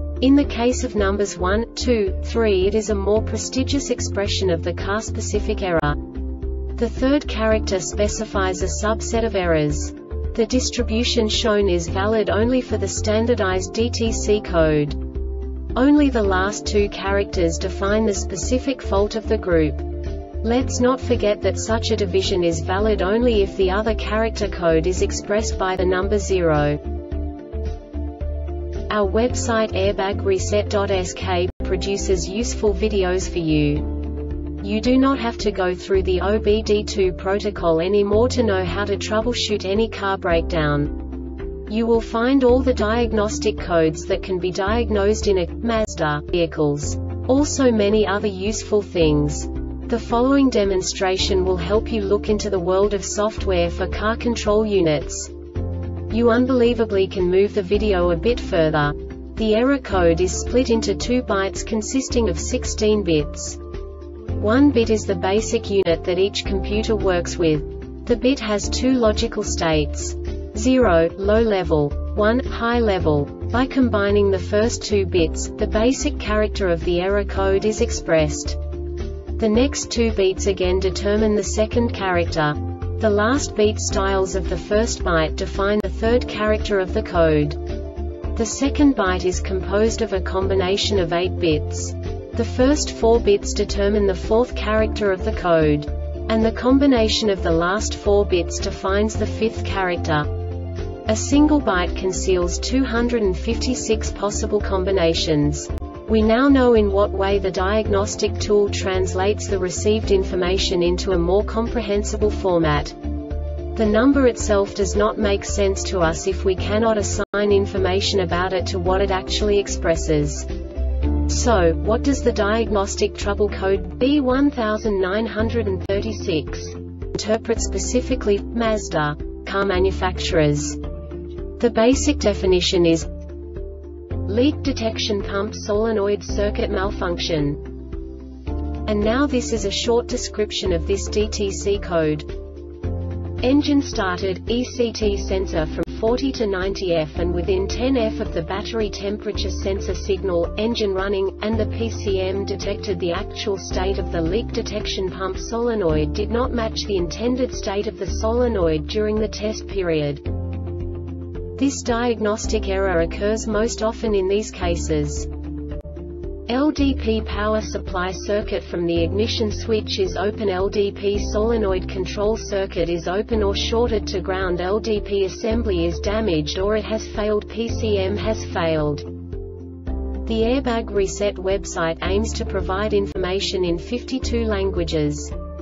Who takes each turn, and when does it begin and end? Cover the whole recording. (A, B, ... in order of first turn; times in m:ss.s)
0:00.2-0:06.1 A
0:06.7-0:15.0 A
0:15.7-0:26.8 A
0:28.9-0:55.3 A
0:56.1-1:03.6 A
1:04.3-1:18.6 A
1:19.4-1:27.6 A
1:28.3-1:40.4 A
1:41.1-1:53.0 A
1:53.7-2:00.5 A
2:01.2-2:10.8 A
2:11.6-2:13.1 A
2:14.2-2:17.6 A
2:18.8-2:22.3 A
2:23.4-2:40.2 A
2:41.6-2:45.3 A
2:46.5-2:59.1 A
3:00.2-3:05.3 A